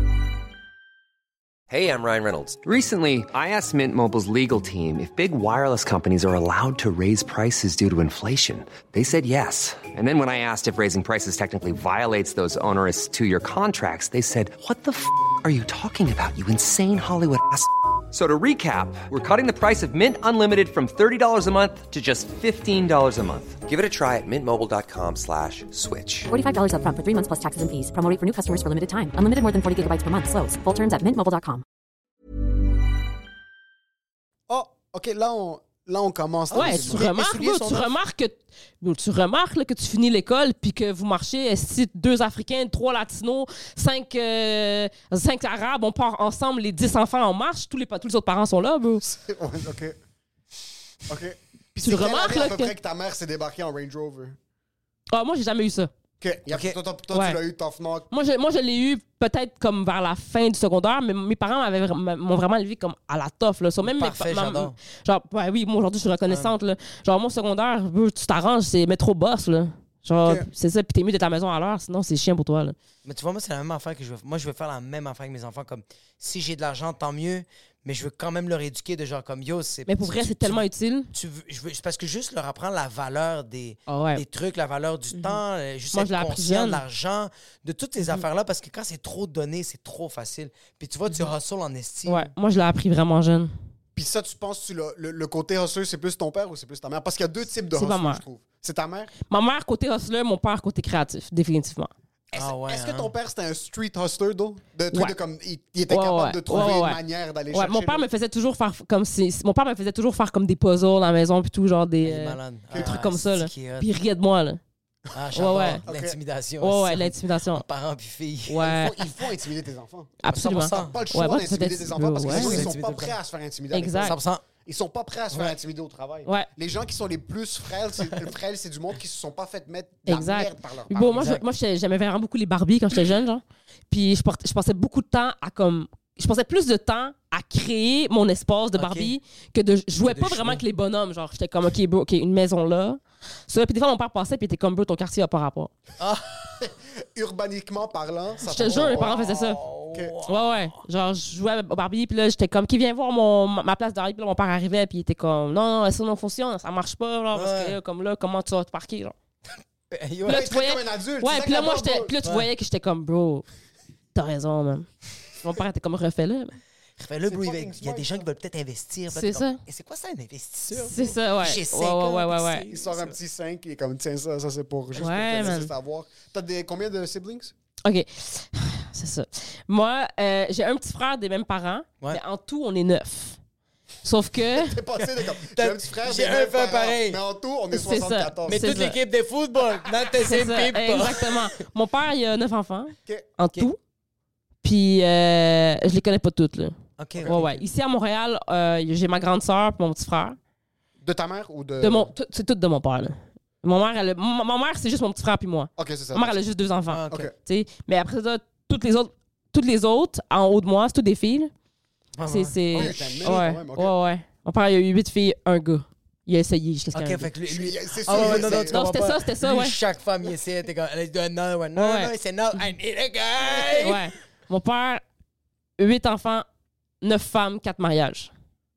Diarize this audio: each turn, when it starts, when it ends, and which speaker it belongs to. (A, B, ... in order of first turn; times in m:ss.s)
0:01.7-0:26.3 A
0:26.3-0:31.6 B
0:34.5-0:37.9 C
0:36.5-0:37.6 D
0:36.5-0:49.0 E
0:49.0-0:50.0 C
0:51.1-0:54.4 C
0:51.8-0:52.7 E
0:55.1-0:55.9 E
0:56.2-0:58.1 C
0:56.5-0:56.8 D
0:57.1-0:57.4 E
0:58.1-1:12.8 E
1:03.8-1:04.8 D
1:13.0-1:32.3 D
1:19.9-1:21.1 E
1:23.9-1:24.2 E
1:25.1-1:25.4 E
1:25.9-1:26.8 E
1:32.0-1:33.5 E
1:34.0-1:39.1 C
1:37.7-1:38.2 E
1:39.3-1:41.9 E
1:42.3-1:48.0 C
1:42.3-1:43.1 D
1:45.9-1:47.0 E
1:47.5-1:54.6 E
1:52.0-1:53.9 D
1:52.7-1:53.0 C
1:55.1-1:58.9 D
1:55.3-1:55.8 E
1:55.4-1:56.2 C
1:56.6-1:57.6 E
1:58.5-1:59.0 E
1:58.6-2:00.1 C
2:00.2-2:02.7 E
2:00.3-2:01.1 D
2:00.7-2:11.3 C
2:02.2-2:03.2 D
2:03.7-2:04.2 E
2:04.0-2:04.4 D
2:05.3-2:05.6 D
2:10.0-2:25.7 E
2:11.0-2:11.4 D
2:18.7-2:19.1 D
2:20.0-2:20.6 D
2:26.0-2:26.6 D
2:26.6-2:29.3 C
2:28.4-2:29.6 E
2:28.5-2:30.8 D
2:30.2-2:39.1 E
2:37.3-2:37.8 D
2:39.5-2:40.5 D
2:40.2-2:43.4 E
2:40.3-2:42.1 C
2:44.1-2:44.9 E
2:45.4-2:46.5 E
2:47.0-2:53.2 D
2:47.3-2:48.2 C
2:49.1-2:49.6 E
2:50.7-2:52.6 E
2:52.7-2:57.5 C
2:54.9-2:55.7 E
2:57.8-3:03.4 E
3:04.0-3:04.8 E
3:04.5-3:08.8 C
3:05.0-3:07.2 D
3:07.7-3:09.0 E
3:08.4-3:11.5 D
3:10.2-3:13.8 E
3:14.6-3:20.4 E
3:17.0-3:17.6 D
3:21.0-3:22.1 C
3:21.8-3:31.5 E
3:25.8-3:26.4 C
3:26.9-3:27.3 D
3:32.2-3:33.4 D
3:32.2-3:37.3 E
3:32.7-3:33.9 C
3:36.9-3:44.0 D
3:37.4-3:38.8 C
3:38.1-3:39.8 E
3:41.8-3:42.7 E
3:43.8-3:45.0 E
3:45.8-3:46.4 E
3:47.0-3:48.3 E